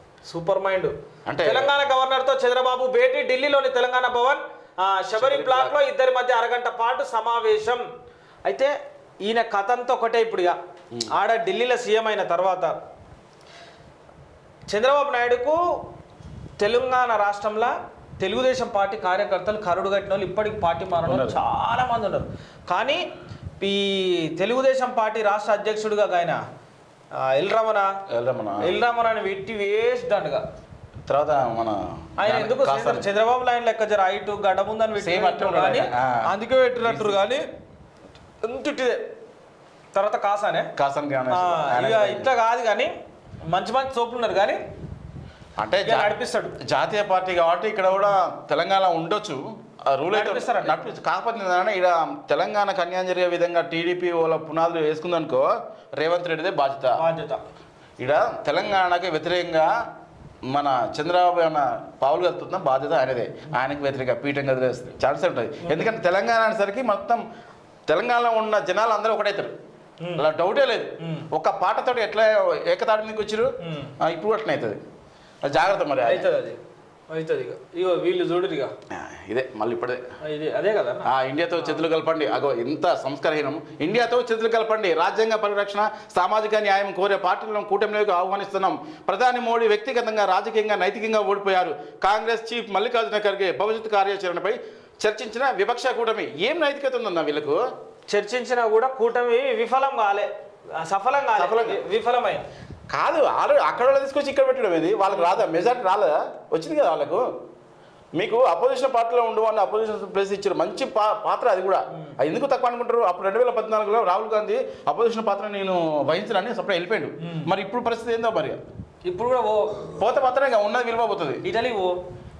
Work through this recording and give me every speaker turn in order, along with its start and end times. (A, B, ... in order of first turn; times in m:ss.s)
0:00.2-0:07.8 A
0:01.3-0:01.7 B
0:05.2-0:05.8 B
0:08.4-0:10.6 A
0:11.1-0:12.8 A
0:14.7-0:15.8 A
0:16.6-0:23.0 A
0:21.0-0:21.4 B
0:23.6-0:26.4 A
0:27.1-0:28.0 A
0:28.1-0:28.7 B
0:28.6-0:30.4 A
0:31.1-0:33.1 B
0:32.2-0:37.4 A
0:35.0-0:36.3 B
0:36.8-0:37.2 B
0:38.4-0:39.0 A
0:39.9-0:40.7 A
0:40.8-0:42.3 B
0:41.3-0:42.9 A
0:43.5-0:44.6 A
0:45.6-0:57.0 B
0:45.8-0:46.6 A
0:50.1-0:50.9 A
0:57.0-0:57.4 A
0:58.0-0:59.7 B
1:00.5-1:07.2 B
1:05.6-1:05.9 A
1:07.9-1:09.5 B
1:10.2-1:14.8 B
1:11.0-1:11.3 A
1:13.6-1:13.9 A
1:15.4-1:16.3 B
1:16.0-1:16.6 A
1:17.1-1:18.7 A
1:18.9-1:20.0 B
1:20.2-1:21.8 A
1:21.0-1:37.6 B
1:38.1-1:42.4 A
1:41.4-1:41.8 B
1:42.9-1:47.2 B
1:45.1-1:45.4 A
1:48.2-1:58.6 B
1:57.2-1:57.5 A
1:59.1-1:59.9 A
1:59.9-2:01.4 B
2:01.4-2:02.0 A